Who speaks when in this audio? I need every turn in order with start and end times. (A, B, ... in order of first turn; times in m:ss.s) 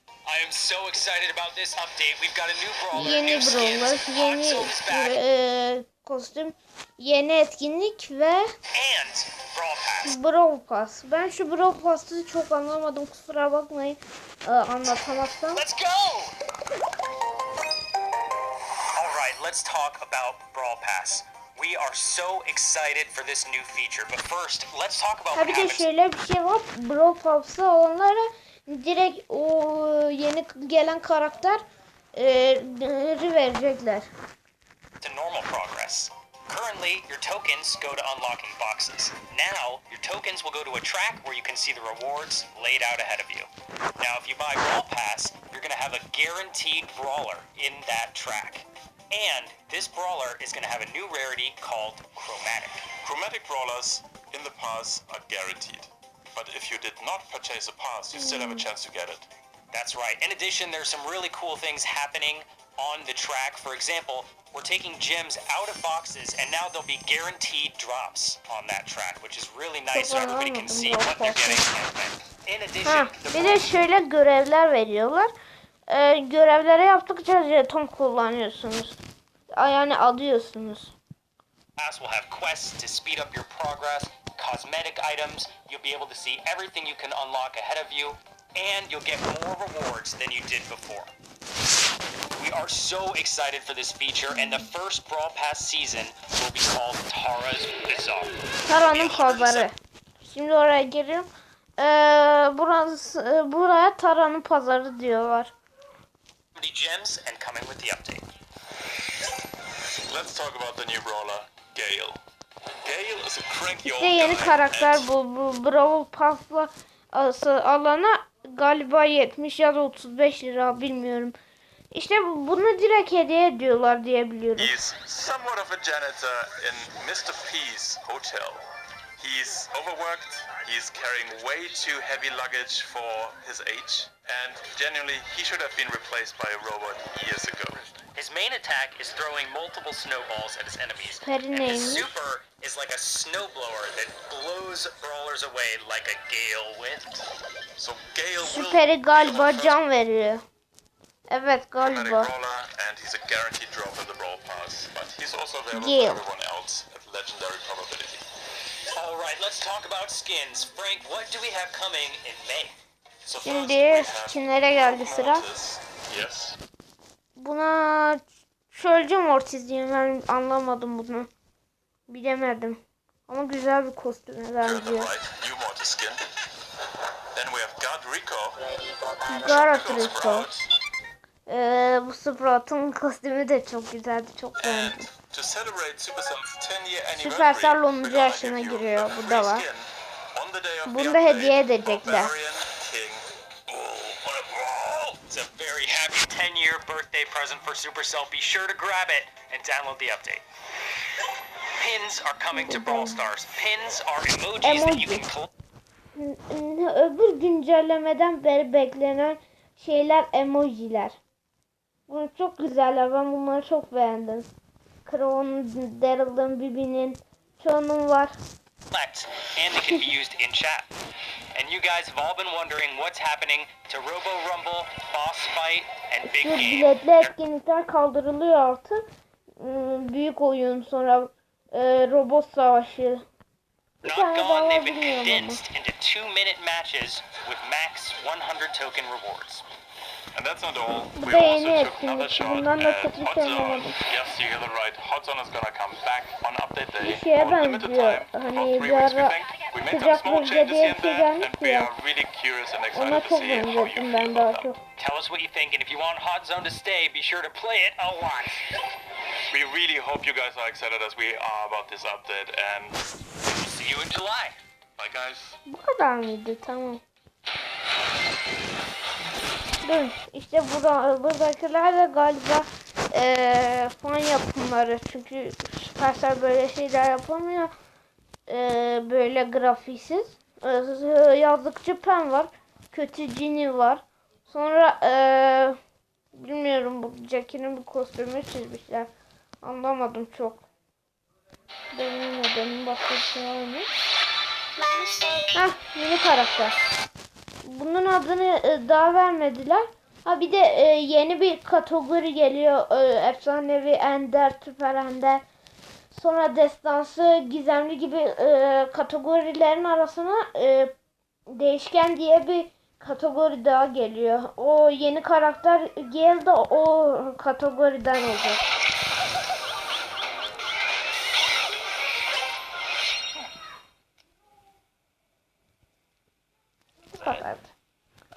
0:00.2-0:05.2 A
0:02.9-0:08.4 B
0:08.7-0:10.2 A
0:10.0-0:15.6 B
0:15.5-0:16.4 A
0:18.9-0:25.9 A
0:25.3-0:31.6 B
0:32.1-0:34.1 B
0:35.0-0:43.5 A
0:44.0-0:52.9 A
0:53.0-0:59.3 C
0:58.2-0:58.6 B
0:59.7-1:13.8 A
1:09.9-1:11.6 B
1:12.8-1:15.3 B
1:15.9-1:19.0 B
1:19.6-1:20.9 B
1:21.8-1:31.1 A
1:32.4-1:39.7 A
1:38.6-1:45.5 B
1:46.6-1:48.2 A
1:50.1-1:52.2 C
1:52.8-1:55.1 C
1:53.8-2:01.3 B
2:01.9-2:04.7 B
2:04.6-2:08.6 C
2:09.2-2:17.8 C
2:18.1-2:27.2 A
2:21.2-2:22.1 B
2:27.8-2:29.8 C
2:28.4-2:30.4 B
2:31.3-2:32.3 B
2:31.8-2:38.2 C
2:35.7-2:36.2 B
2:38.9-2:42.7 A
2:43.2-2:46.6 C
2:43.4-2:45.5 B
2:47.4-2:51.3 B
2:52.1-2:55.1 B
2:54.6-2:56.2 C
2:57.3-2:58.6 C
2:59.2-3:00.5 B
2:59.3-3:00.7 C
3:01.5-3:05.1 B
3:04.6-3:13.2 C
3:07.2-3:09.6 B
3:10.8-3:12.3 B
3:13.8-3:15.1 C
3:15.1-3:20.4 A
3:21.8-3:25.5 A
3:22.5-3:23.2 B
3:24.6-3:25.2 B
3:26.1-3:31.2 B
3:32.1-3:34.5 B
3:35.0-3:38.3 B
3:38.9-3:40.9 A
3:41.5-3:47.3 A
3:46.2-3:49.0 B
3:49.6-3:53.2 B
3:54.0-3:55.6 B
3:54.0-3:59.6 A
4:00.3-4:14.7 C
4:01.2-4:04.0 B
4:07.0-4:09.4 B
4:09.9-4:11.9 B
4:12.9-4:14.8 B
4:15.0-4:18.6 A
4:19.5-4:23.0 C
4:23.6-4:24.6 A
4:25.0-4:25.6 C
4:25.6-4:27.0 B
4:29.8-4:37.7 B
4:38.5-4:45.8 B
4:46.3-4:49.1 B
4:49.6-4:50.6 B
4:51.9-4:53.9 B
4:55.5-4:56.7 B
4:57.6-5:05.4 B
5:06.1-5:10.9 B
5:11.5-5:18.6 B
5:27.1-5:27.7 B